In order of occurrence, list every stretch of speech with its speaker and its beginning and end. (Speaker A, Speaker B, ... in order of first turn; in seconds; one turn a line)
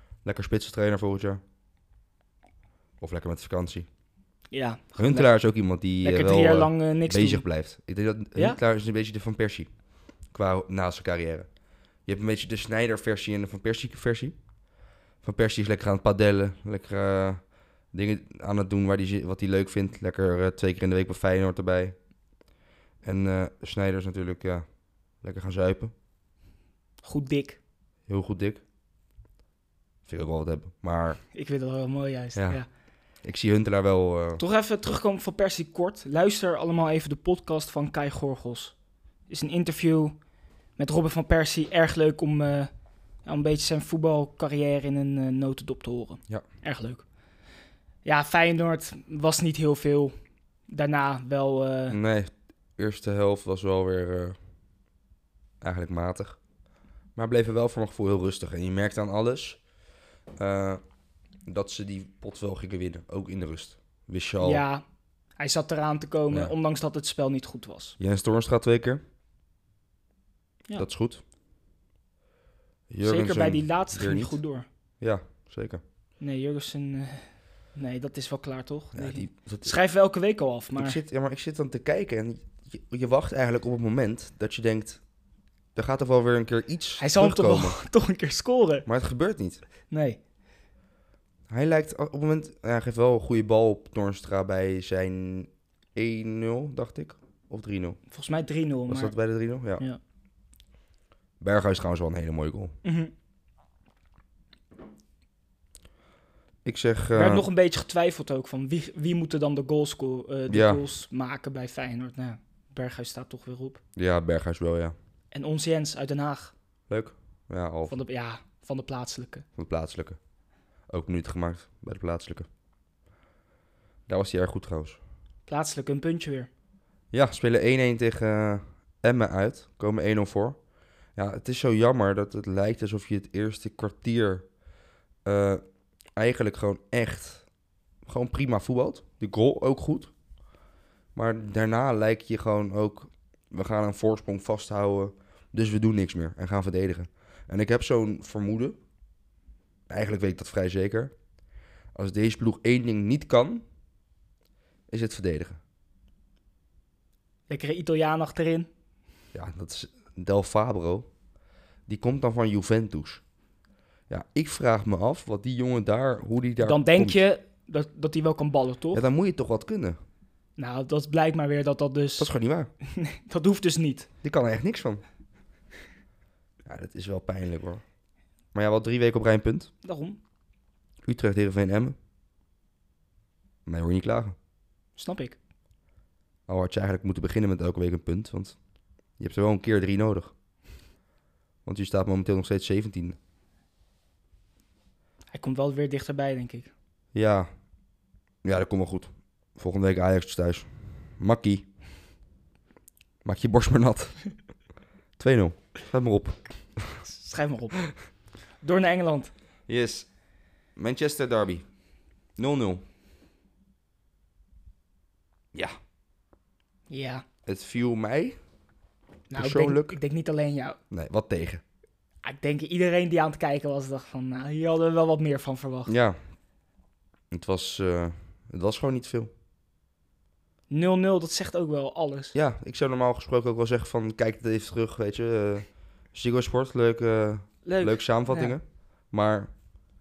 Speaker A: 0.2-1.4
Speaker A: 3.0-3.9
Speaker B: 4.5-5.3
Speaker A: 5.0-9.7
Speaker B: 6.0-7.5
Speaker A: 10.3-11.5
Speaker A: 12.1-14.4
Speaker A: 15.2-17.4
Speaker A: 17.9-22.0
Speaker A: 23.0-24.6
Speaker A: 25.2-25.9
Speaker B: 27.0-27.6
Speaker A: 28.1-28.6
Speaker A: 30.1-31.2
Speaker B: 31.3-32.7
Speaker A: 32.4-32.6
Speaker A: 33.2-34.4
Speaker B: 34.4-38.7
Speaker B: 39.3-40.2
Speaker B: 40.8-42.7
Speaker B: 43.2-47.0
Speaker B: 48.0-50.1
Speaker B: 50.7-52.0
Speaker A: 51.9-54.4
Speaker A: 55.6-56.4
Speaker A: 57.2-59.6
Speaker A: 60.4-60.8
Speaker A: 61.5-64.6
Speaker B: 64.4-64.8
Speaker B: 65.4-68.0
Speaker A: 68.0-69.0
Speaker A: 70.8-71.2
Speaker A: 72.9-74.4
Speaker B: 73.0-74.7
Speaker A: 75.0-75.8
Speaker B: 76.2-81.0
Speaker A: 78.9-79.8
Speaker A: 80.8-85.0
Speaker A: 85.8-87.8
Speaker B: 87.0-88.9
Speaker A: 88.9-89.6
Speaker B: 89.9-90.2
Speaker A: 91.5-98.0
Speaker B: 98.1-99.2
Speaker A: 98.9-99.8
Speaker A: 101.4-102.7
Speaker B: 102.8-103.1
Speaker A: 106.7-107.5
Speaker B: 107.1-113.8
Speaker A: 110.5-110.8
Speaker A: 114.0-115.0
Speaker B: 115.3-116.5
Speaker A: 116.9-118.0
Speaker B: 117.9-119.5
Speaker A: 119.6-120.2
Speaker A: 120.9-122.5
Speaker A: 124.1-125.0
Speaker B: 125.5-126.5
Speaker A: 127.1-130.6
Speaker A: 131.2-134.5
Speaker A: 135.2-135.6
Speaker A: 136.2-137.4
Speaker A: 138.1-140.1
Speaker A: 141.2-148.8
Speaker A: 149.9-151.1
Speaker A: 151.9-153.6
Speaker A: 154.9-155.6
Speaker B: 157.5-158.7
Speaker A: 159.3-161.1
Speaker A: 161.9-163.2
Speaker A: 164.1-167.2
Speaker B: 166.6-169.1
Speaker A: 168.9-170.0
Speaker B: 170.6-172.3
Speaker A: 172.2-172.7
Speaker B: 172.8-174.1
Speaker A: 174.2-175.0
Speaker A: 176.7-177.8
Speaker A: 178.5-179.7
Speaker B: 179.8-180.2
Speaker A: 181.1-182.0
Speaker A: 183.7-184.4
Speaker B: 185.0-185.4
Speaker A: 186.5-188.6
Speaker A: 189.2-190.3
Speaker A: 191.7-193.2
Speaker B: 195.3-196.7
Speaker A: 197.1-197.5
Speaker A: 198.4-201.7
Speaker A: 203.2-204.2
Speaker A: 205.2-207.0
Speaker B: 207.0-207.8
Speaker B: 208.6-209.3
Speaker A: 209.7-210.1
Speaker A: 210.8-211.6
Speaker A: 212.4-212.8
Speaker B: 216.9-217.2
Speaker A: 217.5-218.4
Speaker B: 219.3-220.8
Speaker A: 219.3-220.0
Speaker A: 220.9-221.6
Speaker B: 222.2-225.9
Speaker A: 225.9-226.2
Speaker A: 227.3-229.3
Speaker B: 230.7-232.3
Speaker A: 232.3-239.5
Speaker B: 237.7-238.5